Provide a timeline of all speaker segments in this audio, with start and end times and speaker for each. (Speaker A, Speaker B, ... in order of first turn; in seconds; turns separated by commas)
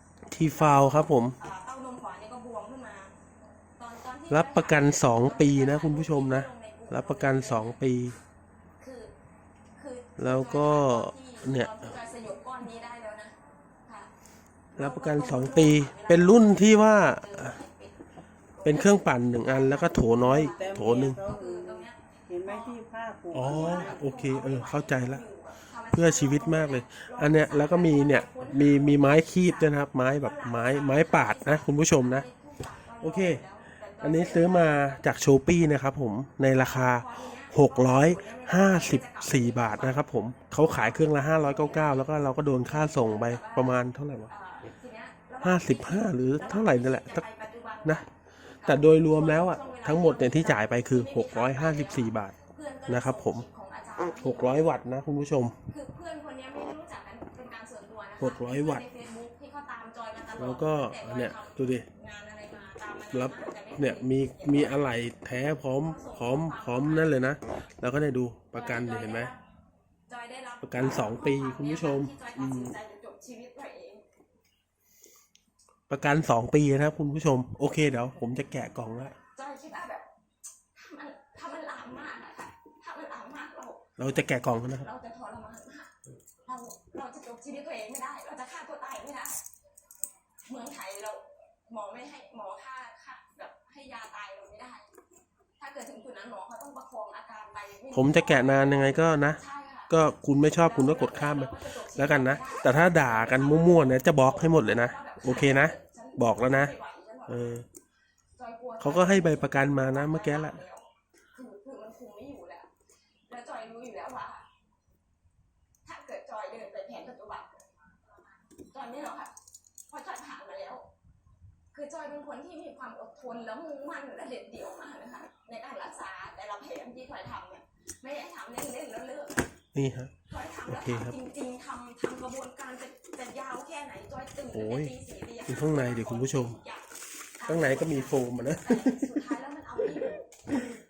Speaker A: 0.3-1.4, Speaker B: 0.4-3.1, Speaker B: 3.8-7.8, Speaker A: 4.3-8.2, Speaker B: 8.8-9.1, Speaker B: 9.8-14.1, Speaker A: 10.2-11.9, Speaker A: 14.8-17.6, Speaker B: 14.8-18.0, Speaker B: 18.5-22.8, Speaker A: 18.6-21.2, Speaker C: 20.2-24.1, Speaker A: 23.3-25.2, Speaker B: 23.4-35.1, Speaker A: 25.9-32.3, Speaker A: 33.0-33.4, Speaker A: 34.0-44.3, Speaker B: 36.5-54.8, Speaker A: 45.4-47.2, Speaker A: 48.6-52.4, Speaker A: 52.9-53.5, Speaker A: 54.1-55.6, Speaker B: 55.7-64.8, Speaker A: 58.2-58.9, Speaker A: 60.4-61.9, Speaker A: 63.1-69.3, Speaker B: 65.8-67.3, Speaker B: 68.5-69.4, Speaker B: 70.1-74.0, Speaker A: 70.6-72.8, Speaker A: 75.9-79.2, Speaker B: 79.3-80.1, Speaker B: 80.8-83.9, Speaker A: 84.0-84.9, Speaker B: 84.7-89.4, Speaker B: 90.5-94.9, Speaker B: 95.6-99.9, Speaker A: 97.9-106.7, Speaker B: 100.6-107.5, Speaker A: 107.3-107.7, Speaker B: 108.4-112.7, Speaker A: 108.8-110.6, Speaker B: 113.3-114.5, Speaker B: 115.8-117.7, Speaker B: 118.5-119.3, Speaker B: 119.9-120.9, Speaker B: 121.7-129.5, Speaker A: 129.7-130.2, Speaker B: 130.3-140.5, Speaker A: 130.7-131.2, Speaker A: 134.5-134.9, Speaker A: 135.5-136.6, Speaker A: 137.5-139.2, Speaker A: 139.9-140.7